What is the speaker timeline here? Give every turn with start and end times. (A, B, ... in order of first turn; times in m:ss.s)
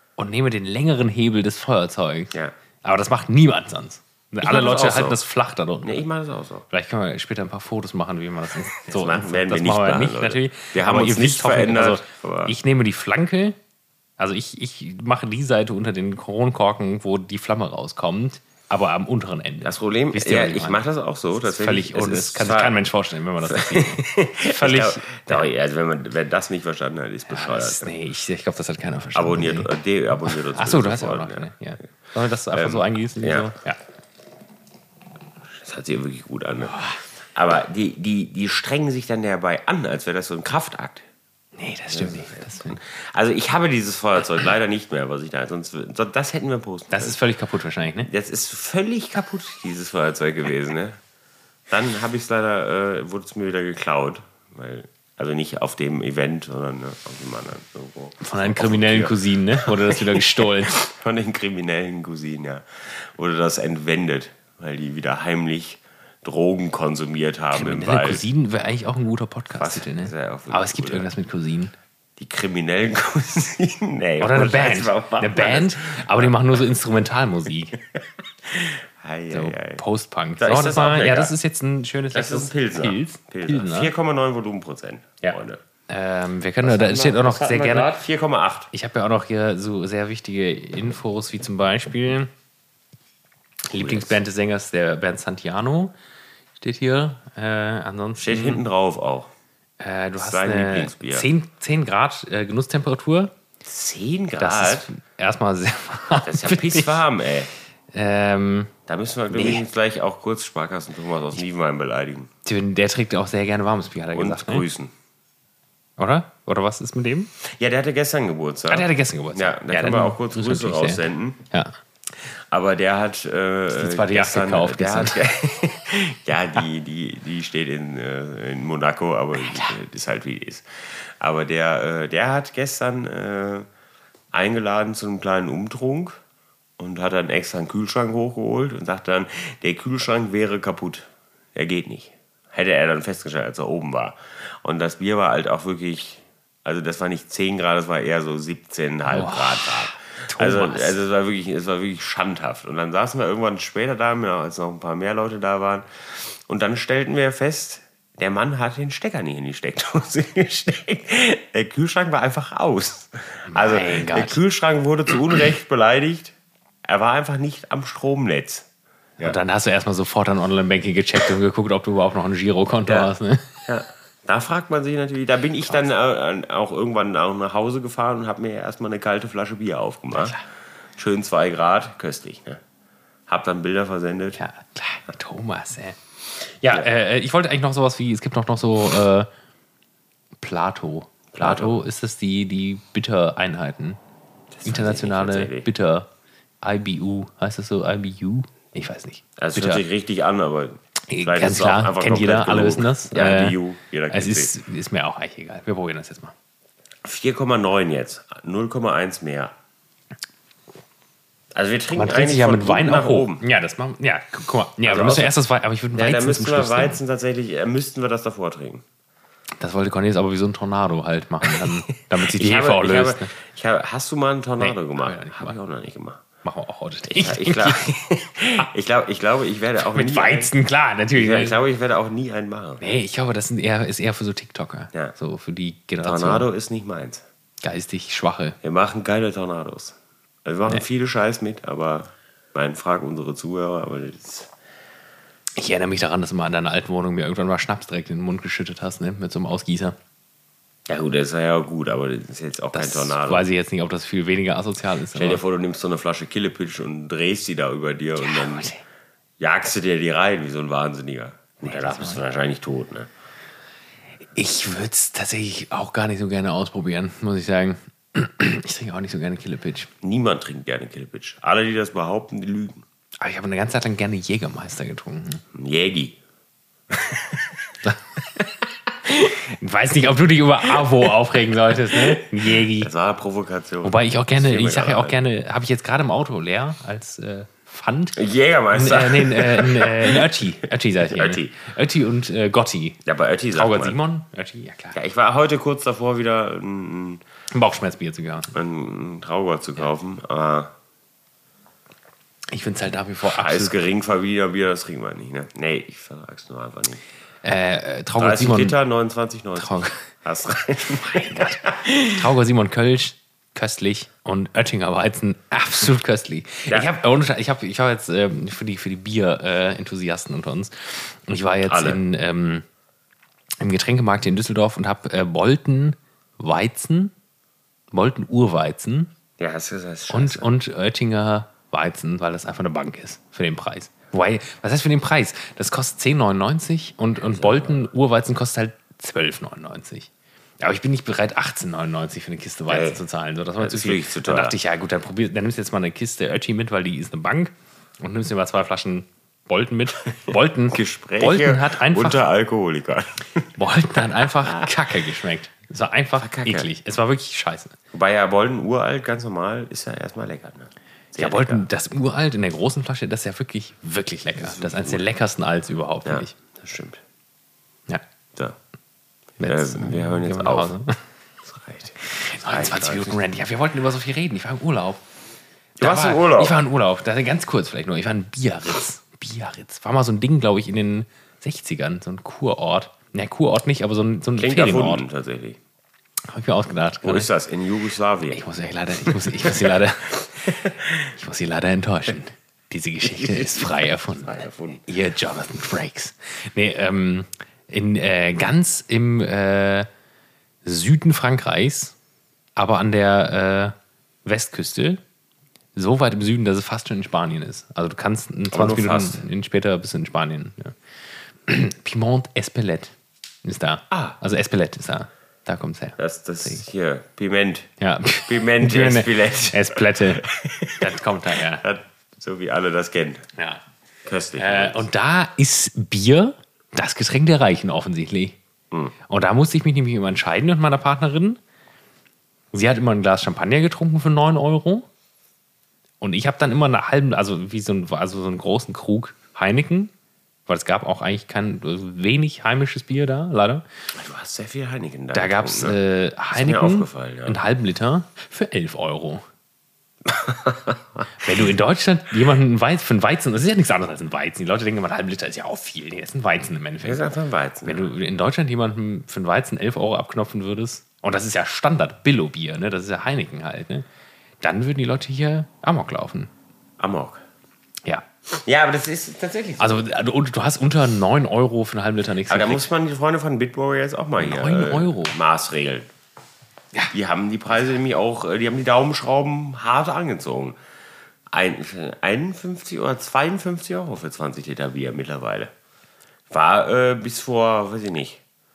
0:00.2-0:06.0 A
0:04.4-0:05.2 B
0:05.8-0:06.7 B
0:06.7-0:13.6 A
0:08.9-0:12.6 B
0:14.2-0:20.8 A
0:19.6-0:22.8 B
0:21.4-0:25.5 A
0:23.4-0:27.9 B
0:27.3-0:33.8 A
0:29.2-0:31.5 B
0:32.5-0:33.5 B
0:35.5-0:36.8 B
0:36.7-0:37.0 A
0:37.4-0:41.0 B
0:41.6-0:42.8 A
0:41.9-0:47.2 B
0:46.9-0:48.1 A
0:48.1-0:51.0 B
0:51.7-1:08.2 B
0:58.2-1:00.8 A
1:07.5-1:11.7 A
1:09.6-1:11.1 B
1:12.2-1:16.4 B
1:14.2-1:17.8 A
1:18.0-1:19.8 B
1:19.3-1:23.9 A
1:20.4-1:21.3 B
1:22.1-1:25.6 B
1:25.9-1:27.9 A
1:26.6-1:28.7 B
1:28.7-1:32.3 A
1:33.7-1:35.9 A
1:33.7-1:34.2 B
1:36.6-1:38.6 A
1:38.2-1:39.3 B
1:39.8-1:43.3 A
1:40.2-1:41.3 B
1:43.6-1:44.9 B
1:44.4-1:47.0 A
1:46.2-1:47.5 B
1:47.9-1:48.7 A
1:48.9-1:52.3 B
1:49.3-1:49.6 A
1:52.4-1:54.7 A
1:54.1-1:54.9 B
1:56.0-1:57.3 A
1:57.4-2:01.4 B
1:58.7-2:01.7 A
2:02.1-2:13.7 B
2:03.7-2:05.2 A
2:09.4-2:09.8 A
2:14.3-2:16.2 B
2:16.8-2:46.3 B
2:29.1-2:31.0 A
2:43.5-2:44.4 A
2:46.8-2:48.7 B
2:49.2-2:53.5 A
2:52.9-2:53.1 B
2:53.7-3:00.4 B
3:00.1-3:00.4 A
3:01.0-3:02.6 B
3:03.3-3:04.4 B
3:04.4-3:09.3 A
3:10.4-3:14.0 A
3:11.3-3:11.8 B
3:14.6-3:15.7 B
3:14.6-3:16.1 A
3:16.6-3:19.8 A
3:19.4-3:24.5 B
3:21.1-3:23.6 A
3:24.1-3:26.3 A
3:27.0-3:29.5 B
3:31.5-3:33.4 B
3:32.0-3:37.0 A
3:34.9-3:35.3 B
3:36.0-3:38.8 B
3:39.6-3:43.3 A
3:41.4-3:46.2 B
3:44.6-3:45.6 A
3:46.4-3:47.8 A
3:47.1-3:50.5 B
3:49.9-3:51.6 A
3:51.1-3:52.8 B
3:52.8-3:56.5 A
3:56.0-3:57.2 B
3:57.6-3:58.6 A
3:58.6-4:04.5 B
4:05.6-4:10.0 A
4:10.9-4:13.5 B
4:12.7-4:15.4 A
4:15.1-4:18.7 B
4:18.2-4:18.8 A
4:19.4-4:23.1 B
4:21.6-4:22.2 A
4:24.4-4:29.9 A
4:30.0-4:32.8 B
4:33.2-4:35.4 A
4:35.5-4:36.2 B
4:36.9-4:37.6 B
4:39.1-4:42.9 A
4:40.7-4:45.2 B
4:43.8-4:53.0 A
4:48.2-4:50.5 B
4:51.0-4:51.6 B
4:53.0-4:54.0 B
4:53.5-4:55.0 A
4:54.9-4:57.2 B
4:57.5-4:58.5 A
4:58.5-5:00.7 B
5:02.5-5:03.8 A
5:03.2-5:07.0 B
5:07.4-5:08.8 A
5:08.2-5:12.1 B
5:09.6-5:10.0 A
5:11.0-5:22.6 A
5:21.7-5:22.0 B
5:23.6-5:27.1 A
5:27.9-5:29.1 A
5:29.4-5:30.5 B
5:30.1-5:40.1 A
5:37.3-5:37.9 B
5:40.6-5:52.2 A
5:42.7-5:43.0 B
5:43.6-5:44.6 B
5:50.3-5:53.5 B
5:53.6-5:57.8 A
5:54.2-5:54.7 B
5:56.2-5:56.7 B
5:57.9-6:01.7 B
6:01.2-6:06.4 A
6:04.4-6:05.0 B
6:06.0-6:07.0 B
6:09.4-6:11.0 A
6:09.4-6:10.7 B
6:11.4-6:13.2 B
6:12.0-6:15.0 A
6:15.8-6:16.6 B
6:15.8-6:25.0 A
6:24.4-6:25.6 B
6:26.3-6:27.3 A
6:27.0-6:28.4 B
6:28.3-6:34.3 A
6:29.0-6:31.1 B
6:33.0-6:34.9 B
6:34.9-6:39.9 A
6:40.6-6:42.0 A
6:42.6-6:45.0 A
6:45.8-6:50.8 A
6:48.5-6:49.2 B
6:51.4-6:56.6 A
6:53.9-6:54.2 B
6:56.0-7:03.3 B
6:57.8-7:00.3 A
7:00.8-7:01.6 A
7:03.4-7:03.6 A
7:04.0-7:04.9 B
7:04.4-7:08.4 A
7:09.1-7:11.4 A
7:12.5-7:14.9 A
7:16.0-7:19.9 A
7:20.5-7:23.6 A
7:23.9-7:25.8 B
7:25.1-7:29.2 A
7:26.3-7:27.4 B
7:30.0-7:31.1 B
7:31.2-7:37.0 A
7:36.8-7:37.9 B
7:37.6-7:43.9 A
7:44.4-7:46.3 A
7:46.8-7:47.2 B
7:48.3-7:49.9 B
7:49.6-7:52.7 A
7:52.3-7:55.9 B
7:54.2-7:55.2 A
7:56.9-8:00.6 B
8:01.3-8:05.5 B
8:06.3-8:08.2 B